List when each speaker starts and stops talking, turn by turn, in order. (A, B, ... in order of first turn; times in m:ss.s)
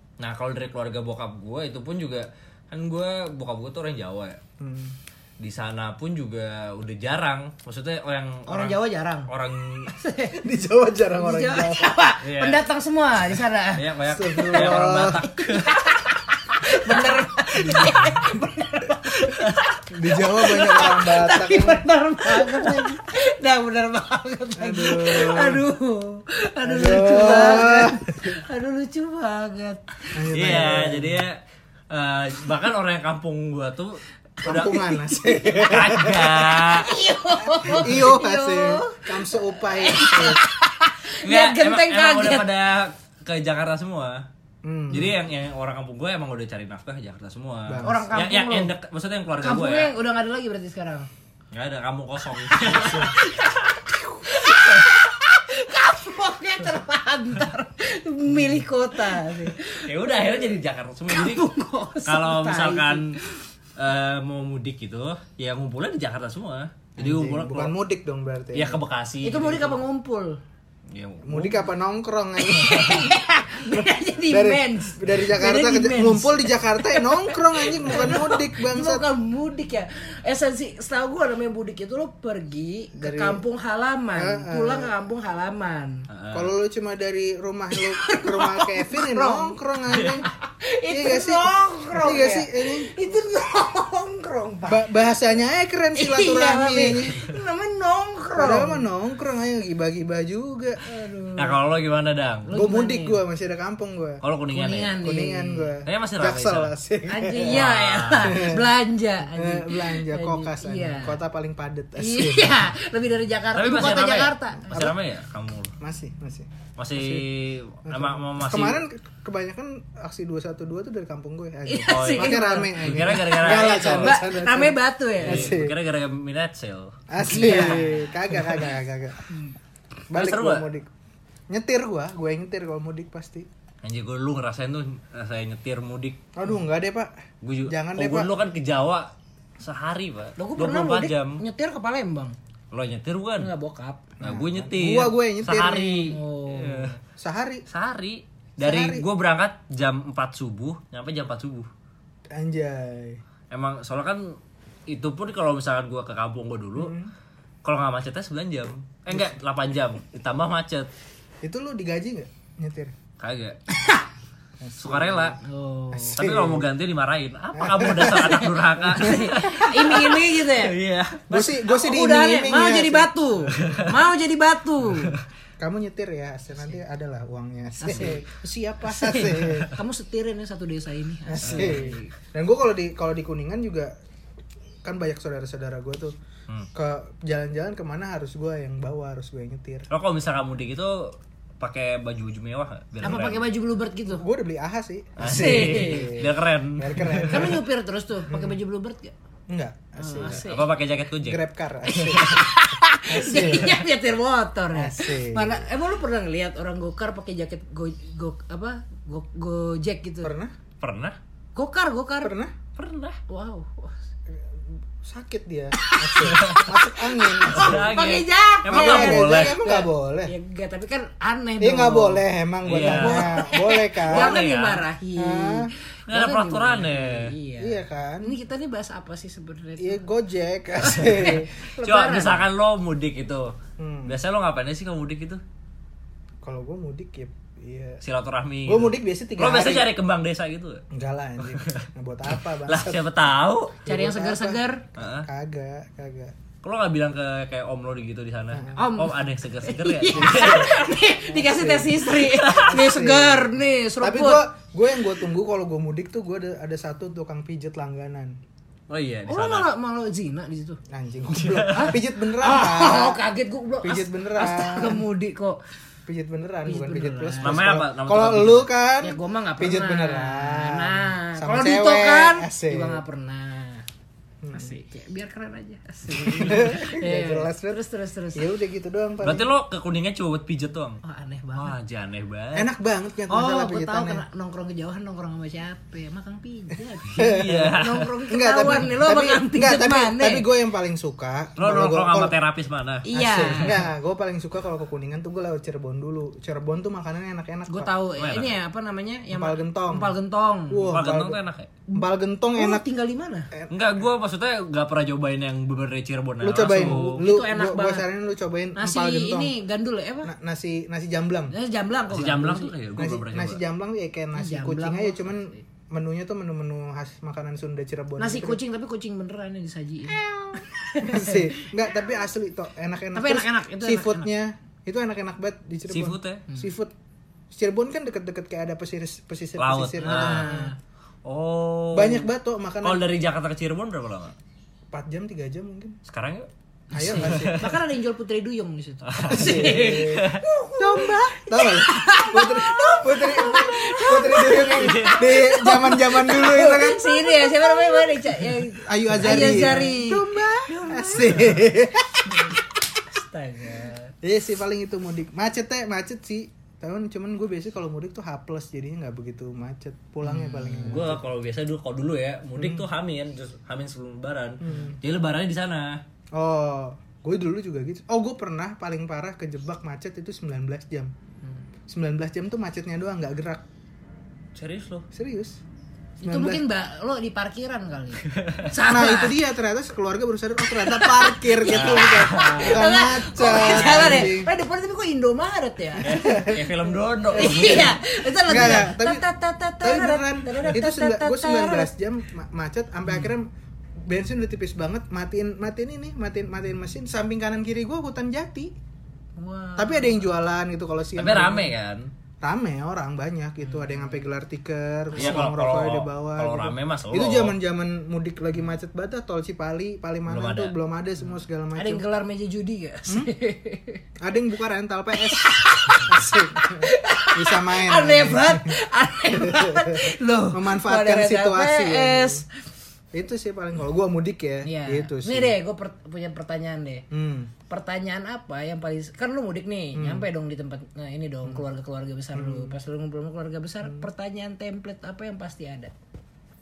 0:00.2-0:04.4 A
0:04.6-0:05.0 B
0:05.4-0:09.9 A
0:08.5-0:09.3 C
0:09.9-0:10.4 C
0:10.4-0:12.0 B
0:11.2-0:14.7 C
0:12.2-0:12.6 A
0:13.8-0:15.8 A
0:14.1-0:15.2 B
0:15.3-0:29.9 C
0:17.5-0:18.3 B
0:19.9-0:22.8 B
0:24.6-0:25.7 B
0:26.6-0:28.4 B
0:30.1-0:31.2 B
0:30.3-0:31.4 A
0:31.9-0:34.9 A
0:34.4-0:36.6 B
0:35.5-0:36.9 A
0:36.6-0:42.5 C
0:37.6-0:40.4 B
0:41.2-0:44.2 A
0:44.6-0:45.2 B
0:44.9-0:49.9 A
0:47.7-0:48.1 B
0:47.8-0:48.7 C
0:49.4-0:51.1 C
0:51.5-0:53.2 A
0:52.6-1:00.5 C
0:52.8-0:53.1 B
0:59.9-1:01.5 A
1:01.1-1:03.2 C
1:02.0-1:03.2 A
1:03.8-1:07.7 A
1:07.0-1:08.8 B
1:08.5-1:09.8 A
1:09.2-1:10.4 C
1:10.9-1:11.6 A
1:11.2-1:13.1 B
1:12.4-1:26.0 C
1:13.7-1:19.0 B
1:23.0-1:23.4 B
1:24.2-1:24.9 B
1:26.1-1:26.5 A
1:26.3-1:30.3 B
1:27.8-1:29.6 C
1:30.3-1:34.8 C
1:30.9-1:32.9 B
1:34.7-1:37.2 B
1:36.0-1:38.8 C
1:38.4-1:40.8 B
1:40.8-1:41.6 C
1:41.4-1:42.5 A
1:42.5-1:43.2 C
1:42.5-1:44.2 B
1:44.2-1:45.0 A
1:44.5-1:45.7 C
1:45.0-1:47.6 B
1:45.8-1:46.7 A
1:47.1-1:51.2 C
1:47.4-1:48.5 A
1:48.2-1:48.6 B
1:49.3-1:52.6 B
1:52.0-1:54.9 C
1:53.5-1:55.8 A
1:54.7-1:55.0 B
1:55.8-1:57.3 B
1:56.8-1:58.8 A
1:57.8-2:05.8 B
2:01.7-2:05.6 C
2:01.8-2:04.2 A
2:05.2-2:07.0 A
2:07.1-2:09.3 B
2:07.3-2:08.2 C
2:10.1-2:10.7 A
2:10.1-2:10.9 B
2:11.5-2:13.5 B
2:13.8-2:16.2 A
2:16.4-2:17.1 B
2:17.4-2:21.4 A
2:17.7-2:18.3 B
2:20.4-2:22.4 C
2:22.7-2:23.5 A
2:23.4-2:24.1 C
2:24.2-2:26.1 B
2:24.2-2:27.0 A
2:26.1-2:27.0 C
2:27.2-2:27.6 B
2:27.7-2:31.7 A
2:28.6-2:29.1 B
2:32.3-2:33.2 B
2:33.5-2:34.4 A
2:34.9-2:37.0 A
2:36.8-2:37.1 B
2:37.6-2:40.9 A
2:41.4-2:42.9 B
2:43.2-2:43.6 A
2:43.7-2:44.1 C
2:44.6-2:45.4 B
2:44.8-2:45.4 A
2:45.4-2:46.2 C
2:45.9-2:46.7 B
2:46.2-2:51.3 A
2:47.6-2:49.4 B
2:48.3-2:50.7 C
2:51.3-2:53.1 B
2:51.3-2:55.2 C
2:53.6-2:53.9 A
2:55.6-2:59.7 B
2:57.8-2:58.2 C
2:58.8-3:02.1 C
3:01.3-3:03.9 B
3:04.8-3:06.2 B
3:06.7-3:09.9 B
3:09.9-3:13.5 A
3:13.0-3:14.2 C
3:14.1-3:17.6 B
3:15.2-3:17.6 A
3:15.2-3:16.2 C
3:17.3-3:19.1 C
3:18.3-3:18.6 B
3:19.5-3:20.4 B
3:20.0-3:20.7 C
3:20.2-3:21.4 A
3:21.2-3:22.4 B
3:22.0-3:22.4 A
3:22.1-3:30.4 C
3:23.1-3:23.8 B
3:24.7-3:25.7 B
3:30.2-3:30.5 B
3:30.8-3:31.2 A
3:31.6-3:32.3 C
3:32.2-3:32.6 B
3:32.8-3:33.2 A
3:33.3-3:34.0 C
3:35.0-3:38.0 B
3:35.8-3:42.2 C
3:36.2-3:36.7 A
3:37.5-3:39.6 A
3:38.7-3:40.3 B
3:41.6-3:44.4 B
3:42.6-3:43.4 A
3:42.8-3:50.0 C
3:44.0-3:44.8 A
3:45.2-3:45.7 B
3:46.1-3:47.3 A
3:47.6-3:48.3 B
3:49.8-3:51.5 B
3:50.8-3:52.4 C
3:51.8-3:53.5 A
3:53.8-3:54.2 B
3:54.1-3:55.4 A
3:56.4-3:58.0 B
3:58.0-4:00.8 A
3:58.7-3:59.9 B
4:00.9-4:03.0 B
4:01.5-4:01.9 A
4:02.5-4:03.8 A
4:03.8-4:06.3 B
4:03.9-4:04.8 C
4:05.0-4:05.3 A
4:06.6-4:10.8 A
4:08.5-4:08.8 B
4:08.8-4:14.5 C
4:10.2-4:18.4 B
4:12.2-4:12.7 A
4:18.9-4:19.7 A
4:19.3-4:20.8 C
4:20.9-4:23.2 B
4:21.3-4:21.9 A
4:21.7-4:25.6 C
4:23.8-4:25.1 B
4:26.1-4:33.0 B
4:26.7-4:27.6 C
4:27.4-4:28.7 A
4:29.0-4:33.8 C
4:34.4-4:34.8 B
4:34.5-4:38.5 C
4:36.3-4:37.8 B
4:38.4-4:39.5 B
4:39.2-4:41.0 A
4:41.0-4:41.8 C
4:41.6-4:42.7 A
4:42.5-4:44.2 B
4:43.3-4:50.5 C
4:47.2-4:48.1 A
4:47.2-4:52.4 B
4:51.6-4:53.1 A
4:53.1-4:53.8 C
4:53.1-4:57.9 B
4:57.7-5:00.9 C
4:58.2-4:58.6 A
4:59.3-5:00.2 B
5:00.7-5:01.4 B
5:00.8-5:01.7 A
5:01.9-5:03.5 C
5:01.9-5:02.8 B
5:03.7-5:07.2 A
5:06.4-5:09.5 B
5:06.7-5:08.1 C
5:08.8-5:10.3 C
5:10.2-5:11.5 B
5:11.5-5:12.7 C
5:12.1-5:13.6 A
5:13.0-5:18.6 B
5:14.4-5:15.6 C
5:18.2-5:21.7 C
5:20.1-5:26.9 B
5:23.2-5:24.3 C
5:25.9-5:26.4 A
5:27.5-5:30.7 B
5:29.6-5:30.6 A
5:30.0-5:30.8 C
5:31.2-5:32.3 A
5:31.9-5:33.1 B
5:32.8-5:34.4 A
5:34.9-5:36.0 B
5:36.1-5:36.5 A
5:36.9-5:37.7 B
5:36.9-5:51.7 C
5:37.0-5:37.8 A
5:39.1-5:40.4 A
5:39.3-5:52.6 B
5:44.6-5:45.3 A
5:52.3-5:54.1 C
5:54.2-6:01.2 B
6:00.2-6:01.1 C
6:00.8-6:06.0 A
6:02.6-6:02.9 B
6:04.6-6:05.0 B
6:06.3-6:11.1 B
6:11.9-6:13.6 B
6:14.6-6:15.1 A
6:15.1-6:15.6 B
6:16.2-6:19.4 C
6:16.2-6:16.6 B
6:18.3-6:18.7 A
6:18.8-6:24.5 B
6:20.6-6:26.6 C
6:21.7-6:22.8 A
6:23.8-6:24.2 A
6:26.0-6:28.0 A
6:26.0-6:26.7 B
6:27.3-6:29.2 B
6:27.3-6:31.9 C
6:29.8-6:33.5 B
6:34.1-6:38.7 B
6:39.4-6:40.3 C
6:39.8-6:41.7 B
6:41.2-6:42.1 A
6:42.4-6:52.0 B
6:43.6-6:44.2 C
6:45.2-6:45.5 C
6:45.2-6:47.6 A
6:50.3-6:50.8 A
6:51.8-6:54.0 C
6:54.2-6:58.8 B
6:55.2-7:02.5 C
6:59.3-7:02.4 B
7:03.1-7:05.6 B
7:04.6-7:07.1 C
7:07.1-7:07.5 B
7:07.7-7:15.9 C
7:09.9-7:10.3 B
7:12.3-7:12.8 B